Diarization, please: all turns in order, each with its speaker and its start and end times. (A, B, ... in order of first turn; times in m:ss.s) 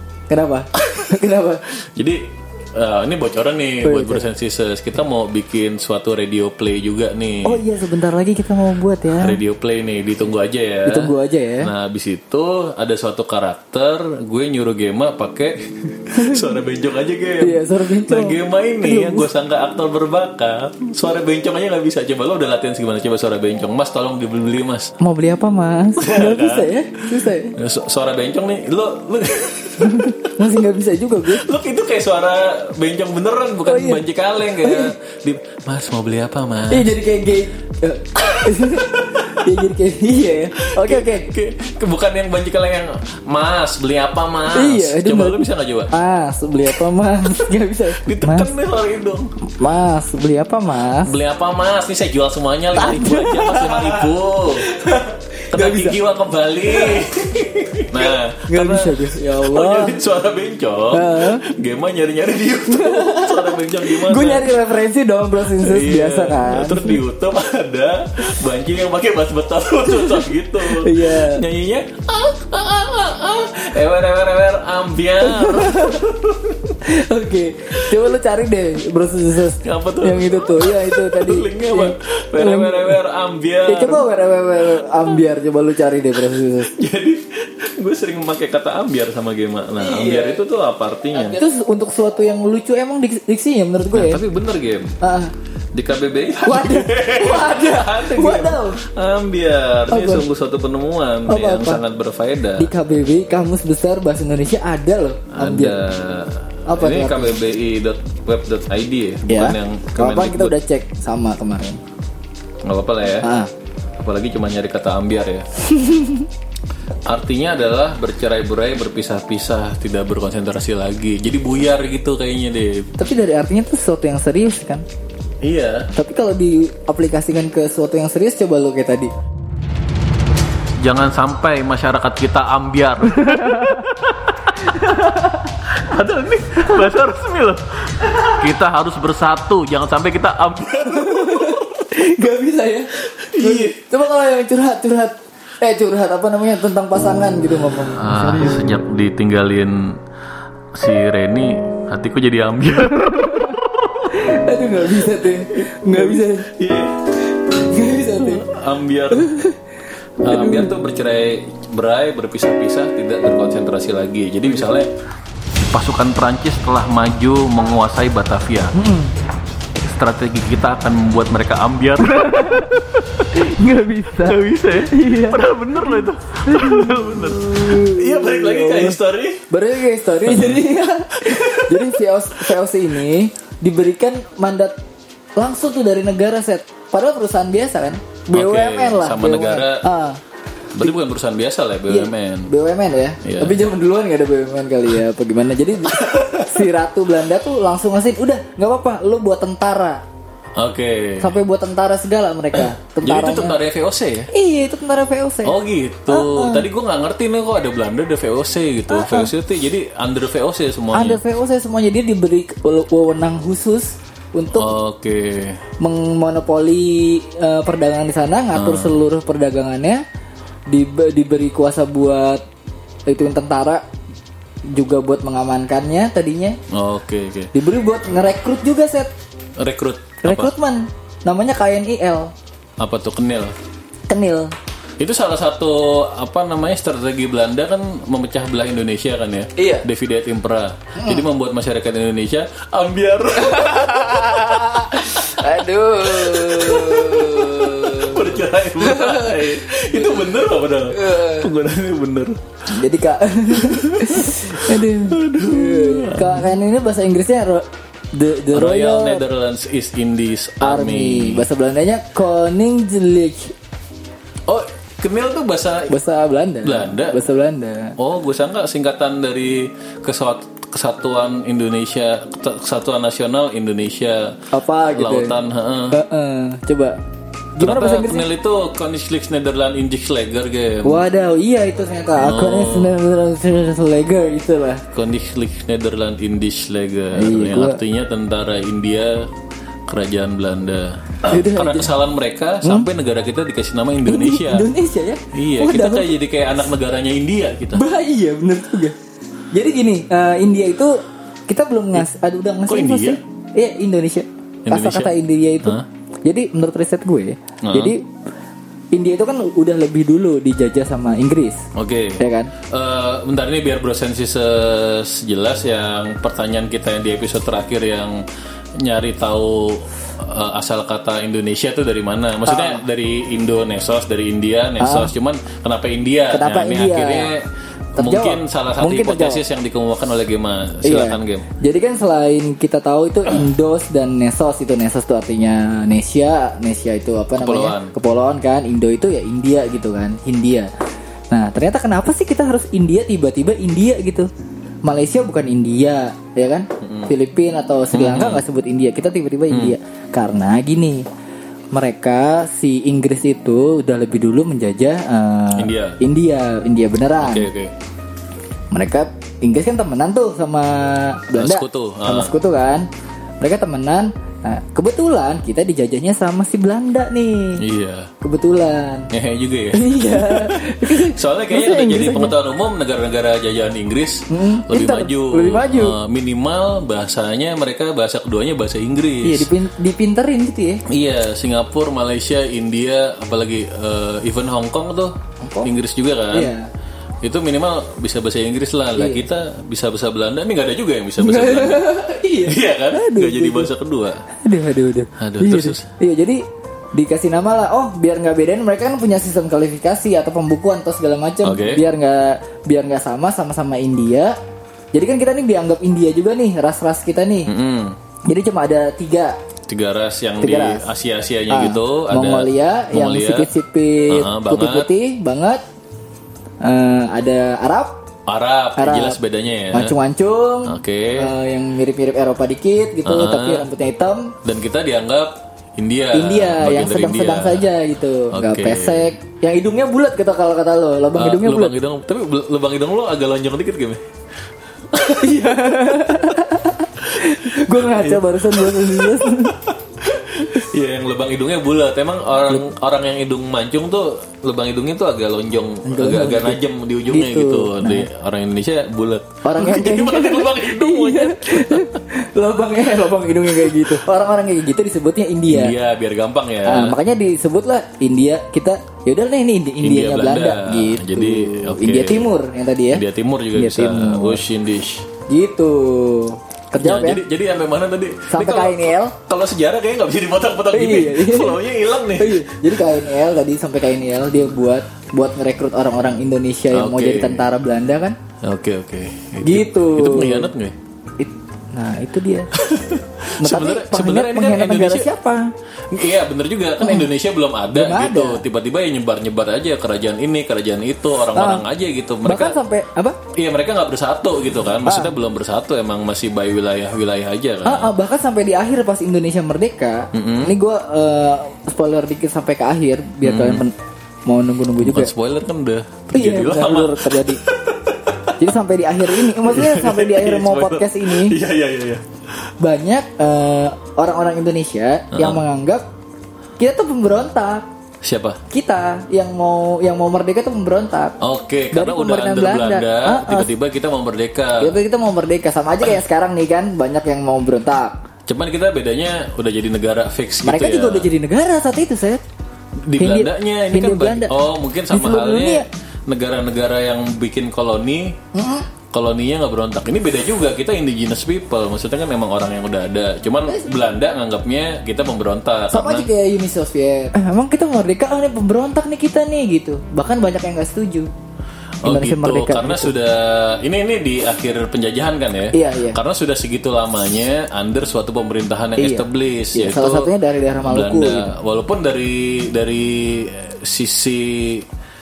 0:00.3-0:01.6 A
0:00.8-0:07.6 B
0:03.8-0:04.3 A
0:07.4-0:09.4 A
0:09.2-0:24.9 B
0:10.9-0:11.7 A
0:16.1-0:16.6 A
0:17.4-0:19.3 A
0:25.0-0:27.6 A
0:26.0-0:30.4 B
0:29.8-0:31.5 A
0:31.2-0:36.9 B
0:33.7-0:34.9 A
0:36.7-0:41.3 A
0:38.2-0:39.5 B
0:40.6-0:45.9 B
0:44.5-0:48.5 A
0:47.9-0:49.3 B
0:49.6-0:51.2 A
0:51.0-0:54.7 B
0:52.7-0:56.0 A
0:55.5-1:04.5 B
0:56.6-0:57.1 A
0:58.0-1:00.0 A
1:00.9-1:01.4 A
1:02.7-1:07.0 A
1:05.4-1:16.8 B
1:09.9-1:11.4 A
1:15.2-1:16.0 A
1:16.8-1:23.0 A
1:19.6-1:24.1 B
1:23.7-1:26.7 A
1:26.7-1:31.4 B
1:29.8-1:30.4 A
1:31.2-1:34.2 A
1:33.9-1:34.9 B
1:35.0-1:35.3 A
1:35.7-1:42.7 B
1:36.4-1:38.8 A
1:39.9-1:40.3 A
1:41.3-1:41.8 A
1:42.6-1:45.8 A
1:45.4-1:50.5 B
1:46.7-1:47.4 A
1:49.3-1:51.8 A
1:52.6-1:53.3 B
1:53.2-1:53.5 A
1:54.0-1:55.5 B
1:55.6-1:56.3 A
1:57.1-2:02.9 B
2:03.0-2:04.8 A
2:05.4-2:05.9 B
2:05.9-2:09.1 A
2:10.8-2:15.0 B
2:13.2-2:13.9 A
2:14.6-2:15.6 A
2:15.6-2:21.9 B
2:20.9-2:28.8 A
2:23.0-2:23.8 B
2:27.9-2:30.0 B
2:30.7-2:34.3 B
2:33.0-2:36.5 A
2:34.8-2:37.0 B
2:37.3-2:38.5 A
2:38.2-2:39.4 B
2:39.1-2:39.6 A
2:40.2-2:44.9 B
2:40.2-2:40.7 A
2:45.6-2:48.7 B
2:48.7-2:49.1 A
2:49.8-2:53.5 B
2:52.0-3:04.8 A
2:54.2-2:59.4 B
3:00.2-3:00.6 B
3:01.2-3:02.0 B
3:05.4-3:10.2 A
3:08.3-3:09.9 B
3:10.7-3:12.5 B
3:11.9-3:20.0 A
3:13.2-3:13.6 B
3:15.9-3:16.7 B
3:20.6-3:21.3 B
3:21.2-3:23.6 A
3:22.6-3:24.3 B
3:24.3-3:25.6 A
3:25.4-3:31.2 B
3:26.1-3:26.7 A
3:28.9-3:29.3 A
3:30.9-3:34.7 A
3:34.6-3:35.6 B
3:35.8-3:40.0 A
3:38.6-3:39.0 B
3:40.7-3:42.4 A
3:43.1-3:43.8 A
3:44.7-3:46.6 A
3:46.7-3:47.5 B
3:47.5-3:49.1 A
3:49.6-3:50.5 B
3:50.2-3:52.3 A
3:52.8-3:53.6 B
3:54.1-3:54.5 A
3:55.0-4:12.4 B
3:59.6-3:59.8 A
4:01.0-4:01.2 A
4:03.4-4:11.5 A
4:12.7-4:19.2 A
4:13.5-4:16.6 B
4:18.5-4:21.4 B
4:20.6-4:23.5 A
4:24.5-4:25.9 B
4:25.9-4:28.0 A
4:26.6-4:27.2 B
4:28.0-4:36.0 B
4:34.5-4:35.4 A
4:35.9-4:37.0 A
4:37.6-4:38.3 A
4:37.6-4:41.0 B
4:40.8-4:44.8 A
4:42.2-4:43.0 B
4:44.9-4:49.3 B
4:47.1-4:47.8 A
4:49.9-4:54.7 B
4:51.2-4:51.9 A
4:52.6-4:52.9 A
4:54.1-4:56.1 A
4:55.3-4:57.8 B
4:57.7-4:59.0 A
4:59.5-5:08.1 A
5:02.7-5:03.2 B
5:04.7-5:05.1 B
5:07.6-5:08.0 B
5:08.9-5:11.7 A
5:11.8-5:18.2 B
5:12.2-5:12.5 A
5:18.8-5:31.5 B
5:22.5-5:22.8 A
5:24.8-5:25.1 A
5:26.3-5:27.3 A
5:28.0-5:29.4 A
5:30.8-5:40.7 A
5:37.4-5:37.9 B
5:41.3-5:44.3 A
5:44.8-5:51.1 A
5:46.8-5:47.1 B
5:47.9-5:48.4 B
5:49.5-5:49.8 B
5:51.7-5:57.5 A
5:55.6-5:56.0 B
5:57.2-5:57.7 B
5:58.7-6:02.9 A
6:01.4-6:02.3 B
6:03.4-6:07.6 A
6:07.6-6:08.1 B
6:08.2-6:09.1 A
6:09.1-6:19.5 B
6:09.7-6:12.3 A
6:14.3-6:16.0 A
6:19.2-6:20.8 A
6:20.9-6:26.5 B
6:25.4-6:25.7 A
6:26.3-6:26.7 A
6:27.2-6:34.2 B
6:29.0-6:29.2 A
6:31.2-6:33.7 A
6:34.4-6:44.4 A
6:35.2-6:35.9 B
6:41.4-6:41.8 B
6:44.9-6:47.5 A
6:47.5-6:48.0 B
6:48.3-6:49.4 A
6:49.7-6:53.5 B
6:50.4-6:50.9 A
6:51.5-6:55.6 A
6:54.1-6:54.9 B
6:56.6-6:58.0 A
6:58.3-7:00.0 B
6:58.8-6:59.2 A
6:59.7-7:04.3 A
7:00.6-7:01.3 B
7:03.0-7:03.7 B
7:04.4-7:07.7 B
7:06.2-7:11.8 A
7:08.3-7:09.1 B
7:11.2-7:14.0 B
7:14.9-7:16.4 B
7:15.1-7:19.6 A
7:17.2-7:32.0 B
7:25.8-7:28.1 A
7:29.4-7:35.8 A
7:33.6-7:34.0 B
7:35.5-7:37.0 B
7:36.7-7:44.4 A
7:39.8-7:42.3 B
7:42.9-7:45.1 B
7:45.3-7:47.2 A
7:46.8-7:52.6 B
7:48.3-7:49.2 A
7:50.7-7:51.6 A
7:52.2-7:58.2 A
7:56.7-7:57.4 B
7:58.4-8:00.8 B
7:59.4-8:00.5 A
8:01.2-8:02.5 A
8:02.5-8:05.1 B
8:03.4-8:05.5 A
8:05.9-8:12.6 B
8:06.8-8:07.1 A
8:07.7-8:08.4 A
8:11.4-8:11.6 A
8:12.2-8:13.2 A
8:13.3-8:17.9 B
8:14.8-8:15.2 A
8:17.6-8:23.8 A
8:20.1-8:20.5 B
8:23.2-8:23.6 B
8:24.3-8:25.1 A
8:24.8-8:28.4 B
8:26.1-8:27.4 A
8:28.4-8:31.4 A
8:29.1-8:32.0 B
8:32.6-8:35.8 A
8:35.1-8:35.4 B
8:36.6-8:37.7 A
8:38.0-8:38.4 B
8:38.5-8:41.2 A
8:41.2-8:44.8 B
8:41.7-8:43.5 A
8:44.6-8:48.0 A
8:48.3-8:51.1 B
8:50.4-8:52.2 A
8:52.8-8:58.2 B
8:53.0-8:54.3 A
8:54.9-8:55.7 A
8:58.3-8:58.7 A
8:58.9-9:06.1 B
9:05.7-9:11.1 A
9:11.8-9:24.7 B
9:11.8-9:12.9 A
9:15.5-9:16.0 A
9:18.8-9:21.3 A